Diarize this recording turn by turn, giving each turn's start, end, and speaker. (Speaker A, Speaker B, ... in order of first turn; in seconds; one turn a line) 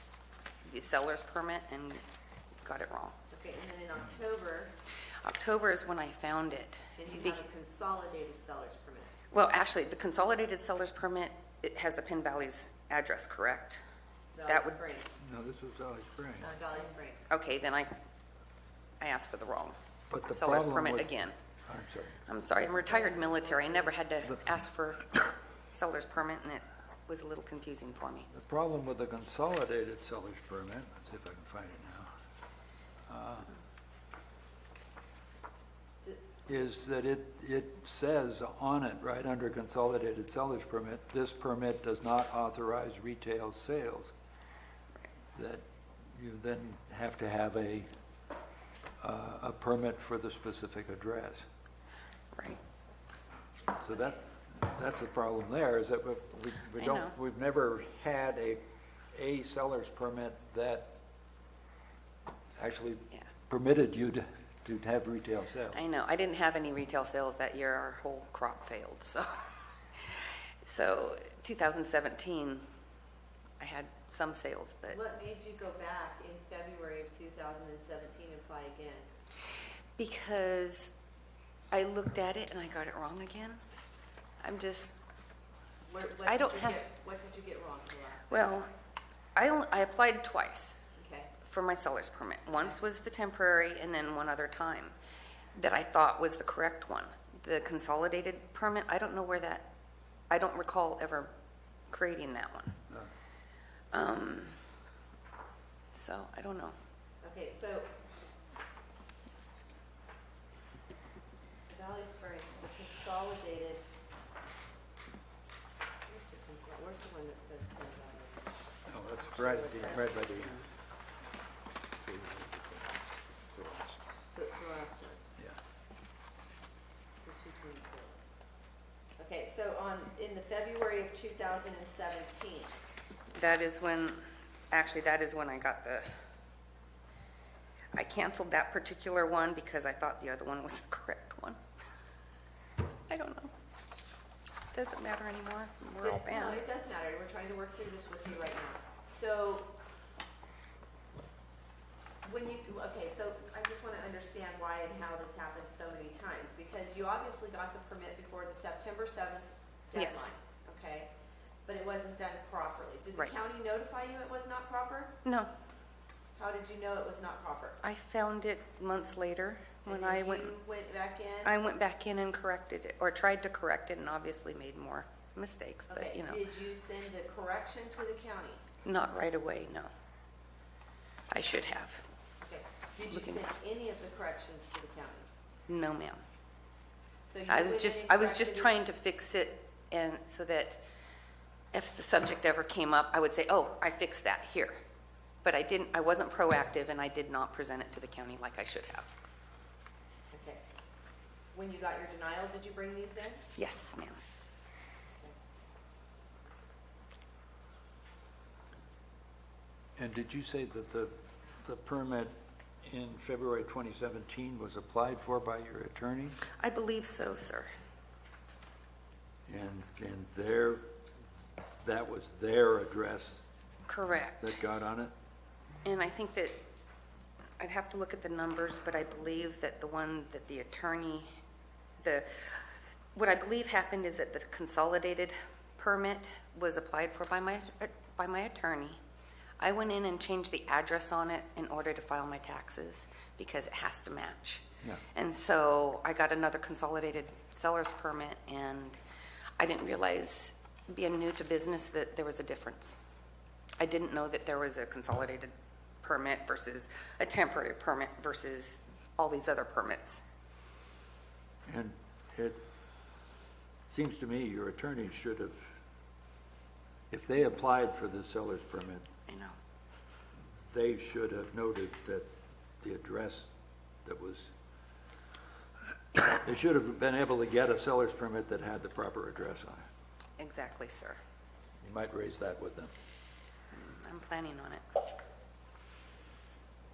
Speaker A: 0.6-2.0
Speaker A: 2.6-3.1
Speaker B: 3.3-4.7
Speaker A: 5.2-7.4
Speaker B: 7.0-9.1
Speaker A: 9.3-13.8
Speaker B: 14.3-15.1
Speaker A: 14.5-14.8
Speaker C: 15.2-16.5
Speaker B: 16.4-17.3
Speaker A: 17.3-17.9
Speaker A: 19.0-19.8
Speaker C: 20.1-21.1
Speaker A: 20.3-21.4
Speaker C: 21.7-22.2
Speaker A: 22.3-25.2
Speaker B: 22.7-24.0
Speaker A: 25.7-28.3
Speaker C: 28.3-32.1
Speaker C: 33.1-33.5
Speaker B: 36.0-36.4
Speaker C: 36.5-44.1
Speaker C: 45.4-47.9
Speaker C: 49.0-51.4
Speaker A: 52.4-52.6
Speaker C: 53.8-58.6
Speaker A: 56.8-57.1
Speaker C: 59.1-60.9
Speaker C: 62.6-65.8
Speaker A: 65.7-69.4
Speaker A: 70.0-72.6
Speaker A: 73.6-75.0
Speaker B: 74.9-79.1
Speaker A: 80.0-80.9
Speaker A: 81.7-83.6
Speaker A: 84.4-85.0
Speaker B: 85.9-88.6
Speaker A: 86.3-86.8
Speaker A: 88.3-88.7
Speaker A: 89.3-90.9
Speaker B: 91.0-91.3
Speaker A: 91.4-95.0
Speaker A: 95.5-99.7
Speaker A: 100.3-101.3
Speaker A: 101.9-102.8
Speaker A: 103.9-104.6
Speaker A: 105.9-106.8
Speaker B: 107.2-107.9
Speaker B: 111.7-113.9
Speaker B: 116.1-118.5
Speaker C: 118.9-120.6
Speaker B: 119.2-120.5
Speaker C: 122.0-124.0
Speaker B: 124.3-125.2
Speaker B: 127.2-128.2
Speaker B: 129.2-132.8
Speaker A: 133.3-136.2
Speaker A: 137.9-141.6
Speaker A: 143.1-143.5
Speaker A: 144.7-146.6
Speaker B: 146.0-149.7
Speaker B: 152.2-161.1
Speaker A: 159.9-160.3
Speaker B: 161.7-165.1
Speaker A: 165.2-165.5
Speaker B: 166.3-167.8
Speaker A: 167.8-170.5
Speaker B: 169.8-171.5
Speaker A: 171.4-176.4
Speaker B: 175.9-178.6
Speaker A: 178.8-179.9
Speaker A: 181.3-182.0
Speaker B: 182.4-185.3
Speaker A: 183.1-183.4
Speaker A: 185.7-186.2
Speaker B: 187.3-188.7
Speaker A: 187.5-190.8
Speaker A: 191.7-194.8
Speaker A: 195.4-199.1
Speaker B: 200.3-200.6
Speaker B: 201.5-203.4
Speaker A: 203.6-204.2
Speaker C: 210.0-216.4
Speaker A: 216.6-217.7
Speaker C: 219.5-220.9
Speaker C: 221.8-223.4
Speaker A: 223.9-224.5
Speaker C: 224.4-225.1
Speaker A: 225.8-226.6
Speaker A: 227.6-231.3
Speaker A: 232.0-232.6
Speaker A: 233.2-239.0
Speaker A: 239.6-249.0
Speaker A: 249.6-253.0
Speaker A: 253.8-260.2
Speaker C: 261.7-262.6
Speaker C: 263.9-265.6
Speaker C: 267.1-269.1
Speaker A: 269.3-269.6
Speaker C: 270.6-272.3
Speaker C: 272.8-273.5
Speaker C: 274.1-274.5
Speaker C: 276.2-279.9
Speaker A: 280.4-281.2
Speaker C: 281.8-282.9
Speaker A: 283.7-284.8